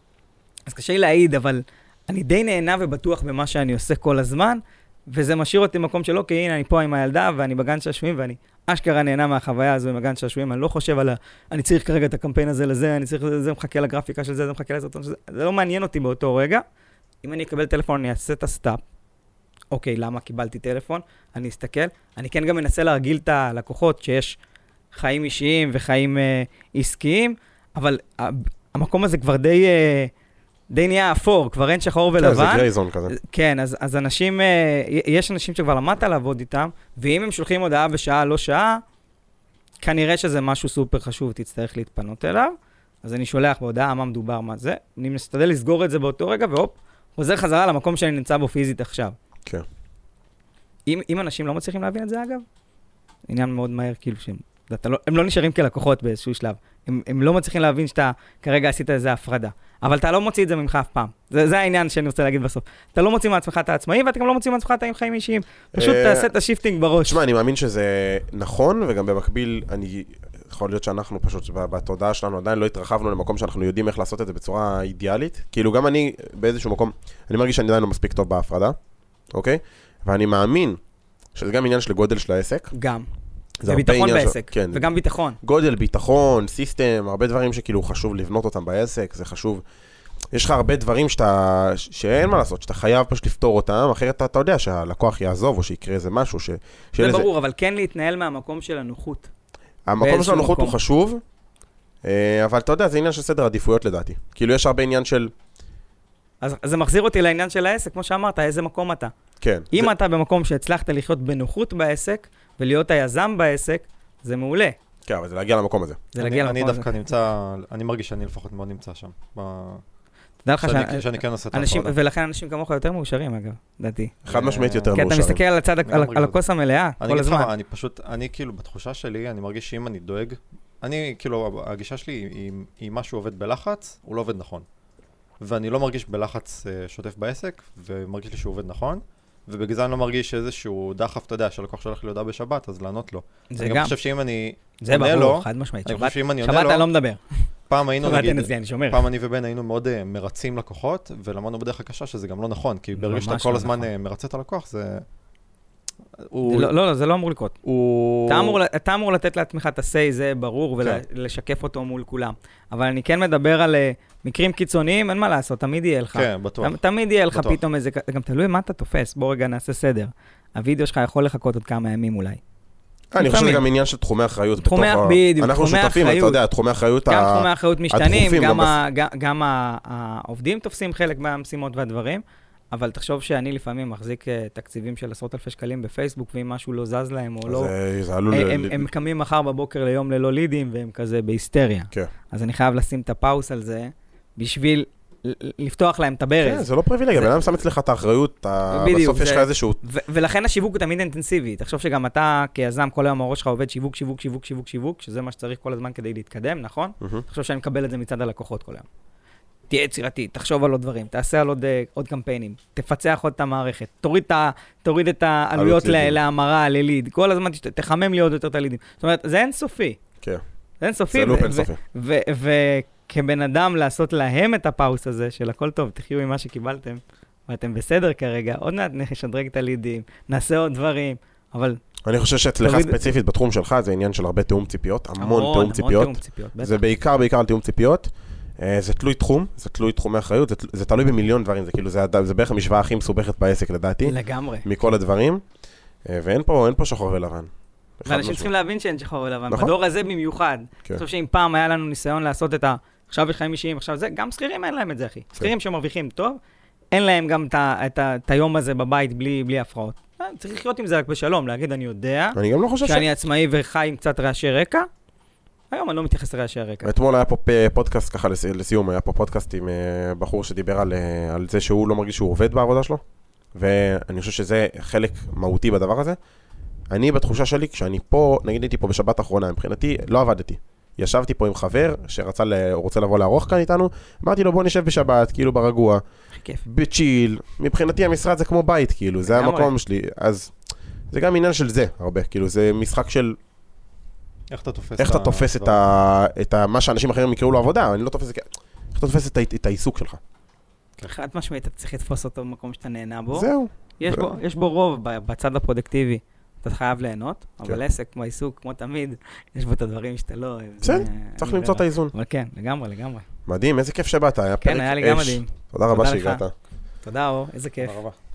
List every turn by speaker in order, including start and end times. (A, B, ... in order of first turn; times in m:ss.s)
0:00.7-0:16.6 A
0:17.2-0:18.8 A
0:19.7-0:24.4 A
0:24.9-0:30.1 A
0:30.7-0:38.8 A
0:32.2-0:33.1 B
0:39.8-0:49.2 A
0:50.9-0:52.4 A
0:53.3-1:07.2 A
1:05.7-1:06.3 B
1:07.0-1:18.8 B
1:19.3-1:20.8 B
1:21.4-1:22.7 B
1:22.7-1:23.1 A
1:23.6-1:24.9 B
1:23.6-1:25.4 A
1:25.4-1:29.6 B
1:30.3-1:37.3 B
1:37.0-1:39.3 A
1:39.8-1:41.2 B
1:40.0-1:40.8 A
1:42.0-1:45.3 B
1:46.4-1:49.1 A
1:49.4-1:49.9 B
1:49.7-1:54.8 A
1:55.1-1:56.0 B
1:56.1-1:59.8 C
1:56.2-1:56.9 A
2:00.4-2:04.2 A
2:00.6-2:01.9 C
2:04.2-2:05.0 C
2:04.2-2:05.4 B
2:04.9-2:07.5 A
2:05.8-2:06.4 C
2:07.0-2:14.6 C
2:15.4-2:26.9 C
2:23.5-2:23.9 A
2:24.8-2:27.2 A
2:27.7-2:35.0 C
2:28.0-2:29.0 A
2:32.9-2:33.9 A
2:36.2-2:36.7 C
2:36.5-2:37.5 A
2:37.6-2:38.6 C
2:38.3-2:52.4 A
2:46.1-2:46.8 C
2:47.3-2:47.6 C
2:53.1-2:58.8 B
2:53.2-2:53.6 A
2:54.6-2:56.4 A
2:57.1-3:07.7 A
3:07.5-3:08.9 B
3:08.3-3:17.3 A
3:16.4-3:19.8 B
3:18.7-3:28.8 A
3:29.7-3:40.0 A
3:35.6-3:36.2 B
3:40.8-3:51.8 A
3:41.1-3:41.8 B
3:52.0-4:05.4 B
3:52.6-3:53.0 A
3:55.2-3:56.8 A
4:04.0-4:04.9 A
4:06.0-4:08.5 B
4:08.1-4:16.4 A
4:16.9-4:24.9 A
4:22.3-4:23.0 B
4:25.7-4:26.9 A
4:26.8-4:33.0 B
4:33.6-4:36.2 B
4:36.9-4:46.0 B
4:46.3-4:46.6 A
4:46.6-4:50.5 B
4:49.3-4:49.7 A
4:51.1-4:53.4 B
4:54.5-4:55.8 C
4:55.0-5:00.2 B
5:01.0-5:13.2 A
5:03.3-5:04.3 B
5:10.8-5:12.1 B
5:13.5-5:16.5 B
5:14.6-5:16.4 A
5:17.0-5:18.0 A
5:17.8-5:18.2 C